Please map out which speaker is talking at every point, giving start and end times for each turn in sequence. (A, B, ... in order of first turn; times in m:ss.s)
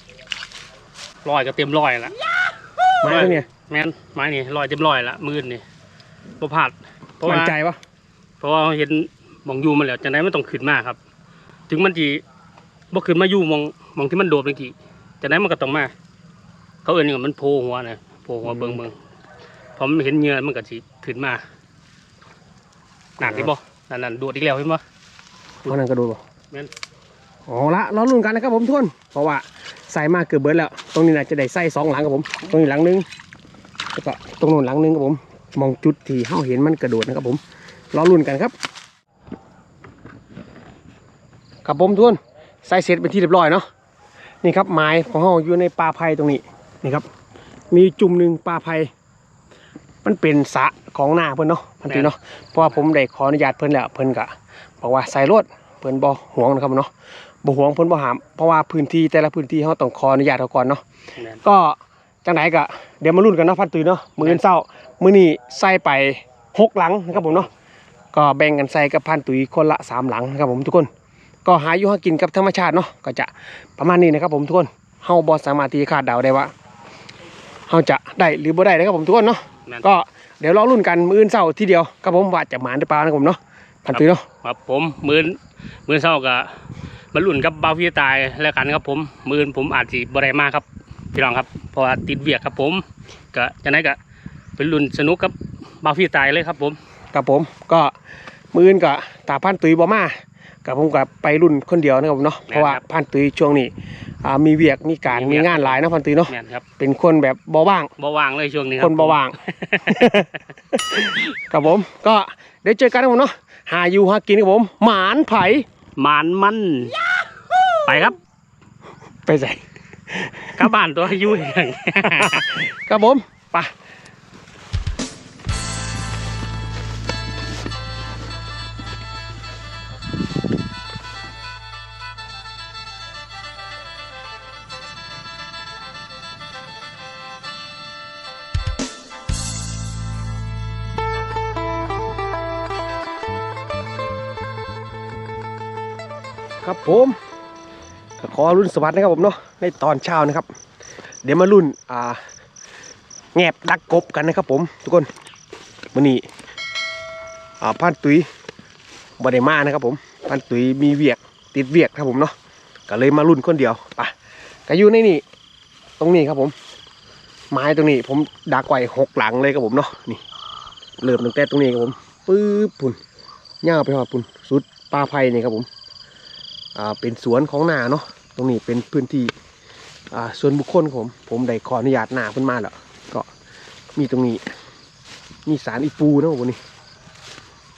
0:01.2-0:02.2 A
0:03.0-0:03.5 B
0:03.1-0:05.6 A
0:06.4-0:07.6 A
0:07.3-0:07.8 B
0:08.4-0:11.0 A
0:11.7-0:12.2 A
0:12.9-0:15.9 A
0:16.8-0:19.0 A
0:18.4-0:18.8 B
0:19.8-0:21.4 A
0:23.2-0:24.8 A
0:23.2-0:23.5 B
0:25.7-0:26.2 B
0:27.5-0:33.1 B
0:34.0-0:37.4 B
0:37.9-0:38.5 B
0:41.6-0:43.7 B
0:44.4-0:47.1 B
0:47.7-0:48.9 B
0:50.0-0:56.9 B
0:51.9-0:52.8 A
0:57.4-1:00.8 B
1:01.2-1:01.4 A
1:01.4-1:07.5 B
1:07.1-1:07.5 A
1:08.1-1:10.9 B
1:11.4-1:16.5 B
1:17.7-1:24.3 B
1:23.9-1:26.6 A
1:27.1-1:34.0 A
1:34.6-1:36.8 A
1:37.1-1:37.9 B
1:38.5-1:43.7 B
1:42.5-1:42.8 A
1:44.2-1:47.9 B
1:45.1-1:46.6 A
1:48.0-1:50.3 A
1:48.8-1:49.4 B
1:49.9-1:55.6 B
1:56.0-1:57.0 A
1:57.8-1:58.2 A
1:59.3-2:00.7 B
2:00.6-2:02.5 A
2:02.1-2:03.7 B
2:26.6-2:27.2 B
2:28.2-2:30.5 B
2:31.2-2:32.2 B
2:33.4-2:35.1 B
2:36.0-2:36.2 B
2:37.6-2:38.3 B
2:39.2-2:42.3 B
2:42.9-2:44.1 B
2:44.7-2:45.2 B
2:46.0-2:46.5 B
2:47.5-2:50.2 B
2:51.0-2:53.0 B
2:53.6-2:55.7 B
2:56.8-2:59.3 B
3:00.1-3:03.3 B
3:04.0-3:04.4 B
3:05.5-3:06.6 B